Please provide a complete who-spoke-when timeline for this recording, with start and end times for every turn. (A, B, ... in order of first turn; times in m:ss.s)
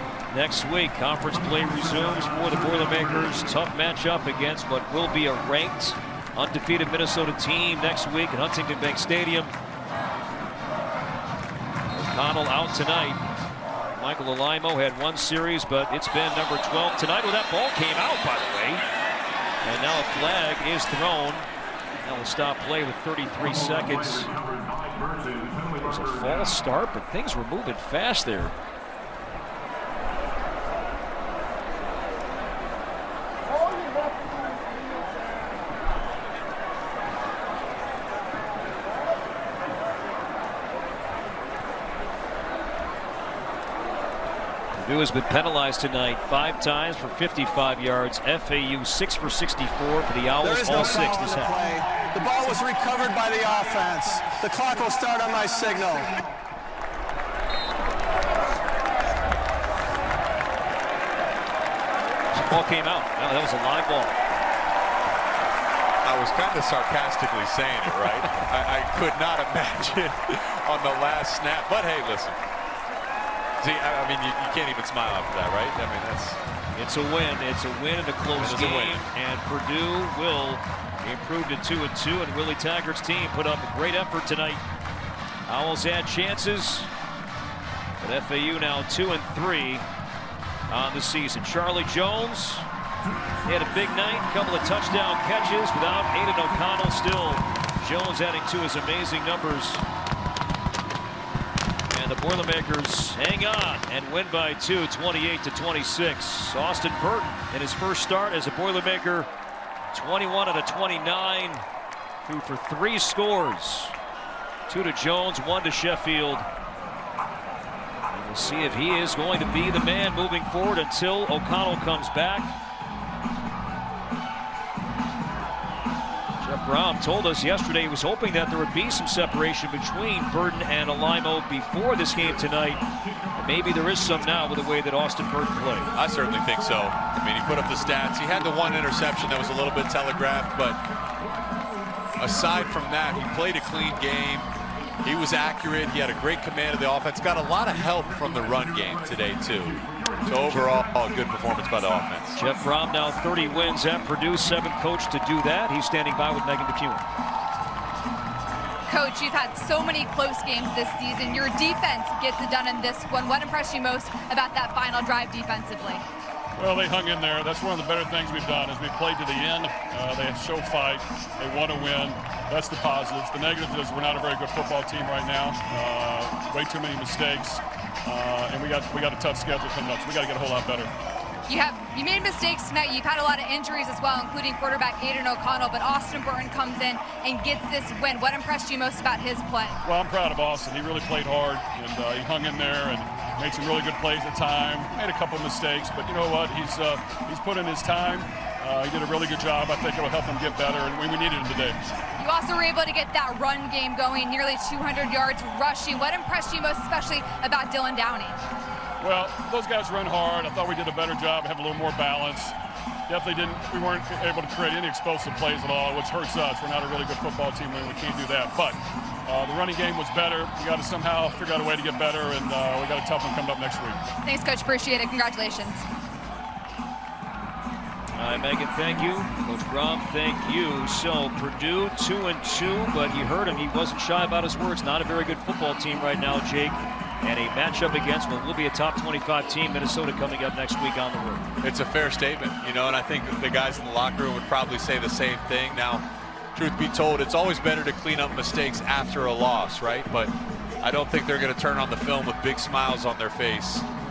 0:00.3-0:09.5 A
0:11.9-0:13.2 A
0:13.9-0:18.8 A
0:19.6-0:21.5 A
0:22.0-0:24.4 A
0:25.8-0:28.6 A
0:44.7-0:51.5 A
0:50.4-0:56.2 B
1:02.3-1:04.2 A
1:06.0-1:12.4 C
1:13.6-1:16.4 C
1:16.7-1:24.6 A
1:18.3-1:19.1 C
1:25.5-1:26.9 A
1:28.0-1:29.8 A
1:30.7-1:32.7 A
1:33.4-1:39.8 A
1:41.9-1:49.3 A
1:49.9-1:51.6 A
1:52.2-1:53.9 A
1:54.7-1:56.5 A
1:58.1-2:02.5 A
2:06.4-2:12.8 A
2:13.3-2:15.9 A
2:15.9-2:20.8 C
2:22.2-2:24.5 C
2:25.0-2:32.4 C
2:32.4-2:37.0 A
2:38.9-2:46.0 D
2:46.6-3:00.9 E
3:01.5-3:09.8 D
3:09.8-3:21.8 E
3:22.2-3:28.4 D
3:29.0-3:32.5 E
3:33.1-3:44.0 E
3:44.2-3:45.8 D
3:48.2-4:01.5 A
4:01.6-4:13.8 C